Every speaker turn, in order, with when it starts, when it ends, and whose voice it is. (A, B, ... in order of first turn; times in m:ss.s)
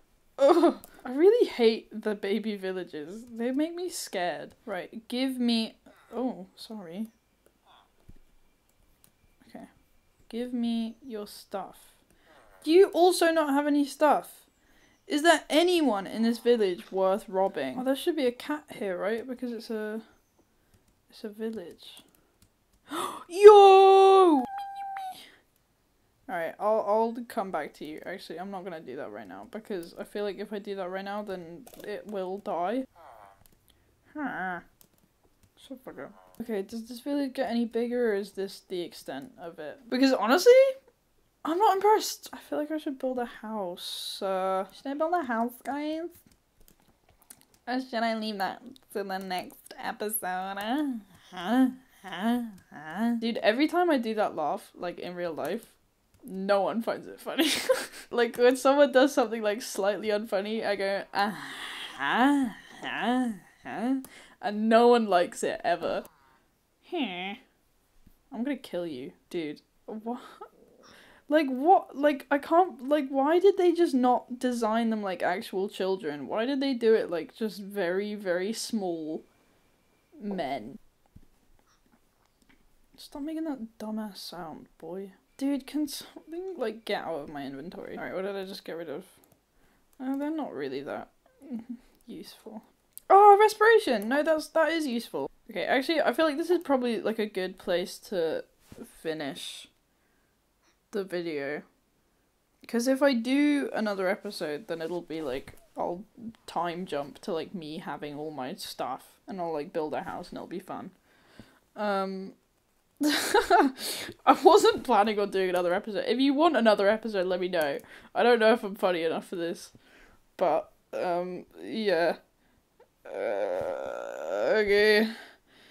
0:00.4-0:07.1 A
0:10.3-0:12.0 A
0:12.6-0:14.4 A
0:15.1-0:20.0 A
0:21.1-0:22.0 A
0:22.9-0:25.2 A
0:26.3-0:32.9 A
0:34.1-0:34.6 A
0:35.6-0:40.8 A
0:41.4-0:46.2 A
0:47.7-1:06.1 A
1:06.8-1:07.4 A
1:08.3-1:10.5 A
1:11.3-1:19.2 A
1:20.2-1:20.8 A
1:23.0-1:29.2 A
1:30.0-1:39.7 A
1:40.9-1:41.6 A
1:42.6-1:50.9 A
1:51.7-1:52.4 A
1:53.0-1:59.8 A
2:00.3-2:02.2 A
2:03.0-2:05.3 A